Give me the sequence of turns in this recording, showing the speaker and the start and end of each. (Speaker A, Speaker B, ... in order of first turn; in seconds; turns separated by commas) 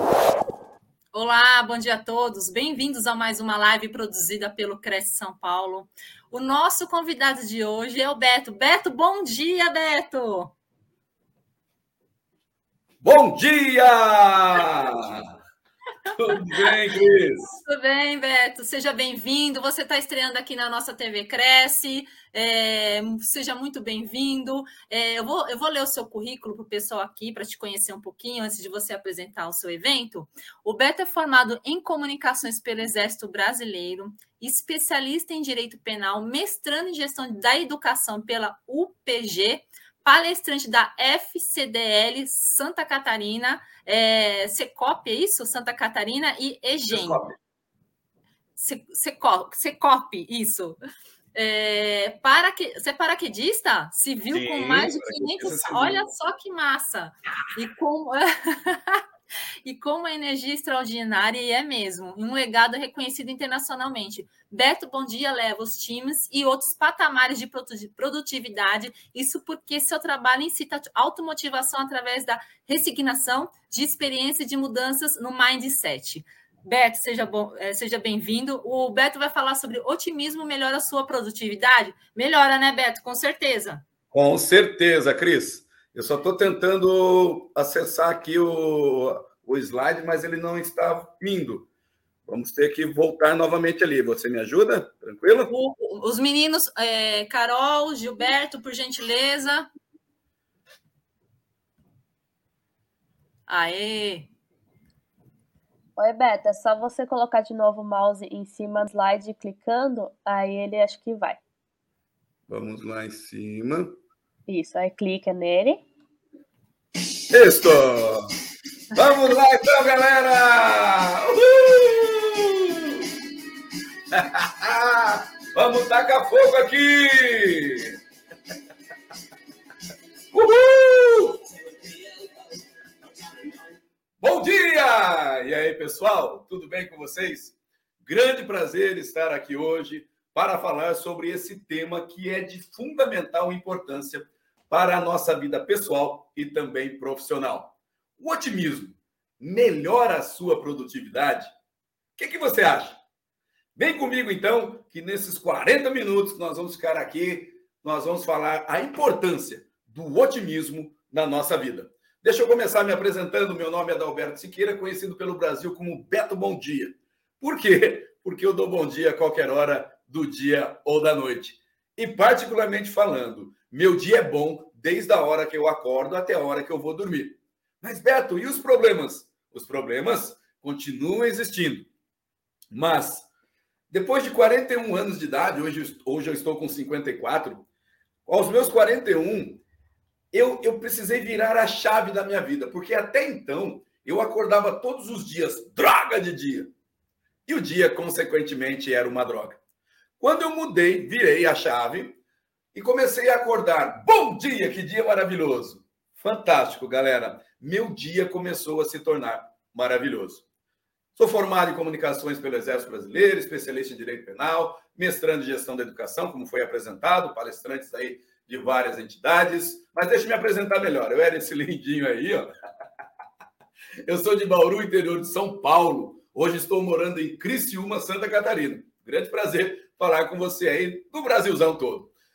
Speaker A: 1.1-10.5, Speaker B: 13.0-15.3, Speaker B: 16.1-17.6, Speaker A: 16.3-16.7, Speaker A: 17.6-47.2, Speaker B: 46.9-47.4, Speaker A: 48.6-50.8, Speaker A: 51.3-59.0, Speaker B: 54.3-56.1, Speaker A: 59.6-83.8, Speaker B: 84.1-91.7, Speaker B: 92.3-95.5, Speaker A: 95.5-99.7, Speaker A: 103.5-104.3, Speaker C: 106.0-111.4, Speaker B: 112.5-113.9, Speaker C: 114.5-115.8, Speaker B: 117.3-118.3, Speaker B: 118.9-123.0, Speaker B: 124.1-127.9, Speaker B: 130.3-131.4, Speaker B: 134.2-151.5, Speaker B: 152.2-153.0, Speaker B: 153.8-181.9, Speaker B: 182.7-183.3, Speaker B: 183.9-187.6, Speaker B: 188.2-189.6, Speaker B: 190.3-196.7, Speaker B: 197.4-199.6, Speaker B: 200.2-202.2, Speaker B: 202.7-210.4, Speaker B: 211.1-222.5, Speaker B: 224.1-232.1